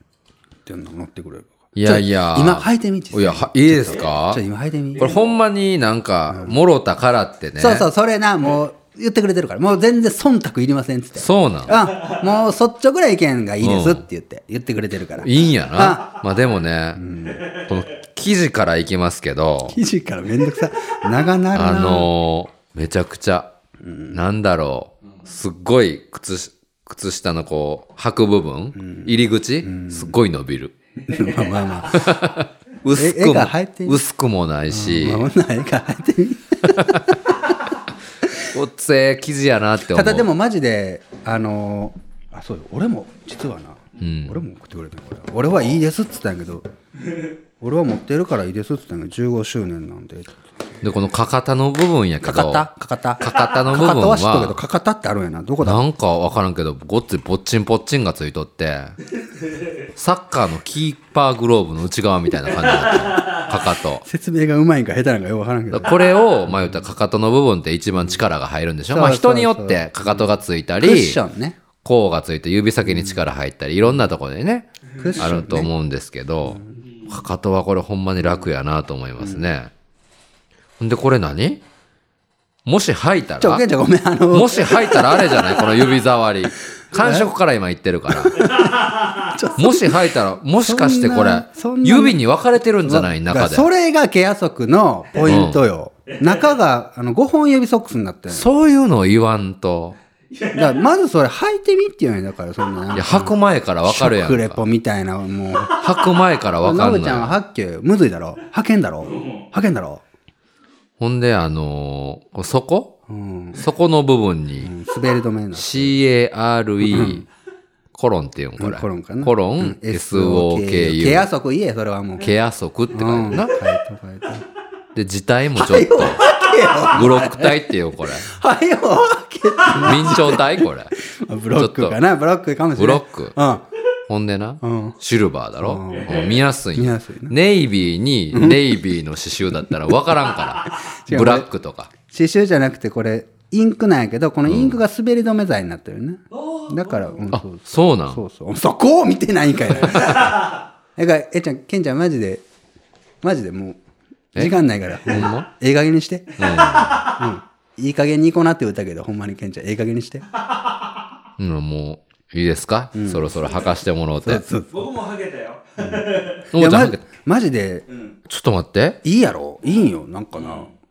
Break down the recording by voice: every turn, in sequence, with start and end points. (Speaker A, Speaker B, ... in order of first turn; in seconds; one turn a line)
Speaker A: 0.7-5.2
Speaker B: 1.8-4.4
Speaker B: 5.0-7.9
Speaker C: 5.0-5.3
Speaker A: 6.3-6.6
Speaker A: 7.6-16.2
Speaker B: 11.2-11.8
Speaker C: 11.8-12.2
Speaker B: 13.6-14.1
Speaker B: 15.2-19.8
Speaker A: 17.0-17.5
Speaker C: 17.4-17.7
Speaker A: 19.7-22.1
Speaker B: 21.5-23.5
Speaker A: 23.8-24.2
Speaker B: 24.1-30.7
Speaker A: 28.8-30.1
Speaker A: 31.1-32.2
Speaker C: 31.1-31.8
Speaker B: 31.9-35.3
Speaker A: 32.9-34.0
Speaker A: 34.7-37.5
Speaker B: 36.6-37.1
Speaker B: 38.5-40.3
Speaker A: 39.9-46.7
Speaker B: 44.0-44.4
Speaker A: 47.6-50.3
Speaker B: 50.8-52.7
Speaker A: 52.2-55.8
Speaker B: 53.2-54.6
Speaker B: 55.6-59.0
Speaker B: 60.0-64.0
Speaker C: 62.6-63.5
Speaker A: 64.0-65.9
Speaker B: 65.7-71.2
Speaker A: 68.9-70.2
Speaker A: 70.8-71.6
Speaker B: 71.8-79.7
Speaker A: 72.9-73.2
Speaker A: 75.0-75.7
Speaker B: 80.8-81.6
Speaker B: 82.6-83.6
Speaker A: 83.4-85.8
Speaker B: 84.3-88.5
Speaker A: 87.0-87.3
Speaker A: 88.1-92.2
Speaker C: 88.4-89.3
Speaker B: 89.6-93.7
Speaker A: 92.8-98.5
Speaker B: 95.2-95.6
Speaker C: 96.1-96.5
Speaker B: 98.3-100.0
Speaker C: 100.3-100.9
Speaker A: 100.5-105.8
Speaker B: 102.9-104.6
Speaker B: 105.8-107.4
Speaker A: 106.6-110.0
Speaker C: 109.0-109.5
Speaker B: 111.0-113.0
Speaker A: 113.1-113.6
Speaker B: 113.5-114.7
Speaker A: 114.6-116.0
Speaker B: 115.5-117.2
Speaker A: 116.8-117.3
Speaker B: 117.9-121.3
Speaker A: 118.6-122.3
Speaker B: 122.2-123.6
Speaker A: 122.9-124.5
Speaker B: 125.0-126.3
Speaker A: 125.5-127.6
Speaker B: 126.8-128.3
Speaker A: 128.2-133.6
Speaker B: 129.7-130.9
Speaker B: 131.6-132.0
Speaker B: 132.8-133.4
Speaker B: 134.1-141.9
Speaker A: 134.6-135.0
Speaker A: 135.6-137.3
Speaker C: 135.9-136.4
Speaker A: 138.3-138.7
Speaker A: 140.7-141.5
Speaker A: 142.1-152.4
Speaker B: 144.5-144.8
Speaker C: 146.3-147.2
Speaker B: 147.3-148.2
Speaker B: 149.8-150.3
Speaker A: 153.2-153.8
Speaker A: 154.3-160.3
Speaker B: 155.1-155.5
Speaker B: 156.4-157.0
Speaker C: 156.4-157.2
Speaker B: 161.4-164.4
Speaker A: 162.9-163.3
Speaker A: 164.2-164.9
Speaker C: 164.7-166.4
Speaker A: 165.8-167.8
Speaker B: 166.5-167.0
Speaker B: 168.3-169.0
Speaker A: 169.0-170.7
Speaker C: 170.4-170.7